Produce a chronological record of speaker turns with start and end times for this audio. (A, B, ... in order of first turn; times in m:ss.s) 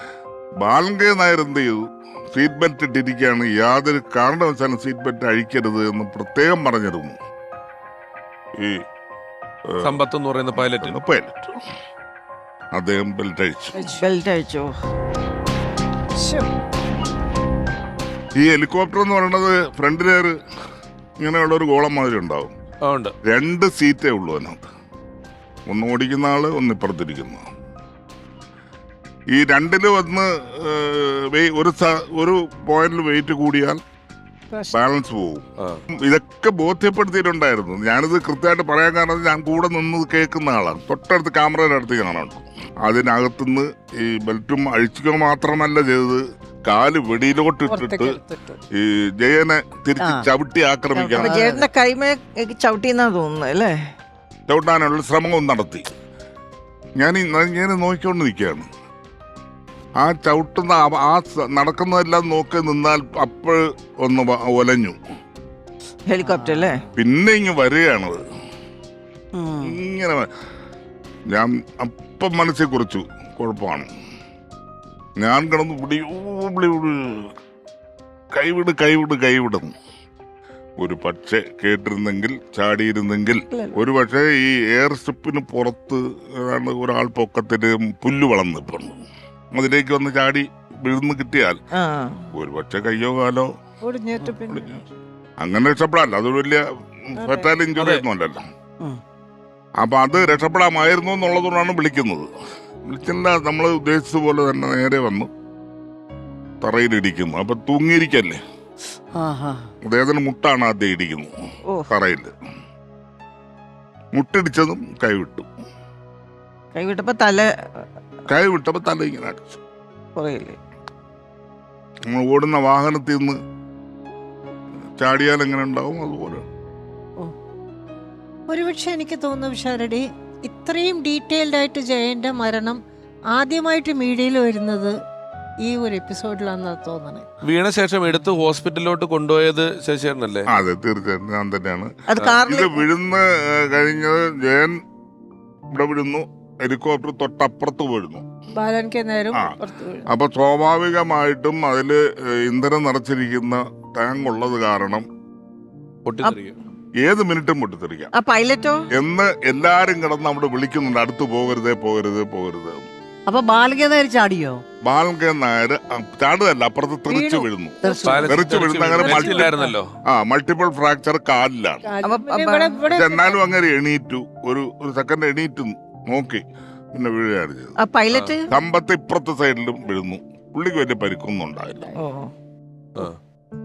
0:00.6-0:07.2 A
0:08.6-0:08.8 A
0:09.7-0:10.0 A
0:09.8-0:10.9 B
0:10.5-0:11.6 A
0:12.7-0:13.9 A
0:13.8-0:14.0 C
0:14.0-0:14.7 D
0:16.2-0:16.5 C
0:18.4-0:20.4 A
0:21.2-0:22.5 A
0:22.8-0:23.1 B
0:23.2-0:24.7 A
0:25.7-0:27.4 A
0:29.3-0:33.8 A
0:34.5-0:34.8 C
0:34.7-0:48.2 A
0:47.7-0:48.6 C
0:48.8-0:51.4 A
0:50.0-0:50.3 E
0:50.9-0:53.7 D
0:51.2-0:51.6 E
0:54.5-0:55.9 A
0:57.0-0:58.7 A
1:00.0-1:05.0 A
1:06.1-1:06.8 D
1:06.2-1:06.7 E
1:07.0-1:08.2 A
1:09.3-1:09.8 E
1:09.6-1:10.3 A
1:11.3-1:13.9 A
1:15.2-1:17.3 A
1:18.3-1:19.7 A
1:20.8-1:29.0 A
1:23.5-1:23.8 D
1:29.5-1:31.6 A
1:31.7-1:32.2 D
1:32.3-1:33.5 A
1:33.8-1:34.8 C
1:34.5-1:34.8 A
1:35.4-1:38.4 A
1:37.2-1:37.5 C
1:37.8-1:38.0 B
1:39.8-1:42.3 A
1:42.9-1:45.3 A
1:46.6-1:48.4 A
1:49.1-1:49.7 E
1:49.8-1:51.3 A
1:51.9-1:52.3 A
1:54.1-1:55.5 A
1:56.7-1:57.5 D
1:58.3-1:59.6 A
2:00.2-2:00.6 D
2:02.1-2:03.4 A
2:05.0-2:06.4 A
2:08.5-2:12.8 C
2:13.3-2:14.9 C
2:15.6-2:17.2 C
2:17.4-2:20.5 B
2:20.5-2:21.9 A
2:22.1-2:22.8 D
2:22.4-2:24.8 A
2:25.7-2:28.3 A
2:28.5-2:30.1 C
2:29.3-2:35.1 A
2:36.0-2:36.6 B
2:37.0-2:38.1 A
2:38.1-2:38.9 D
2:38.9-2:42.9 A
2:43.3-2:44.6 E
2:44.8-2:49.5 A
2:47.1-2:48.3 C
2:47.8-2:48.4 E
2:48.0-2:49.9 B
2:49.0-2:49.6 C
2:49.4-2:49.7 E
2:50.1-2:51.9 A
2:51.8-2:53.4 C
2:52.0-2:52.8 D
2:52.9-2:57.8 A
2:57.8-2:58.5 D
2:58.1-2:58.4 B
2:58.5-3:01.9 A
3:02.0-3:02.3 D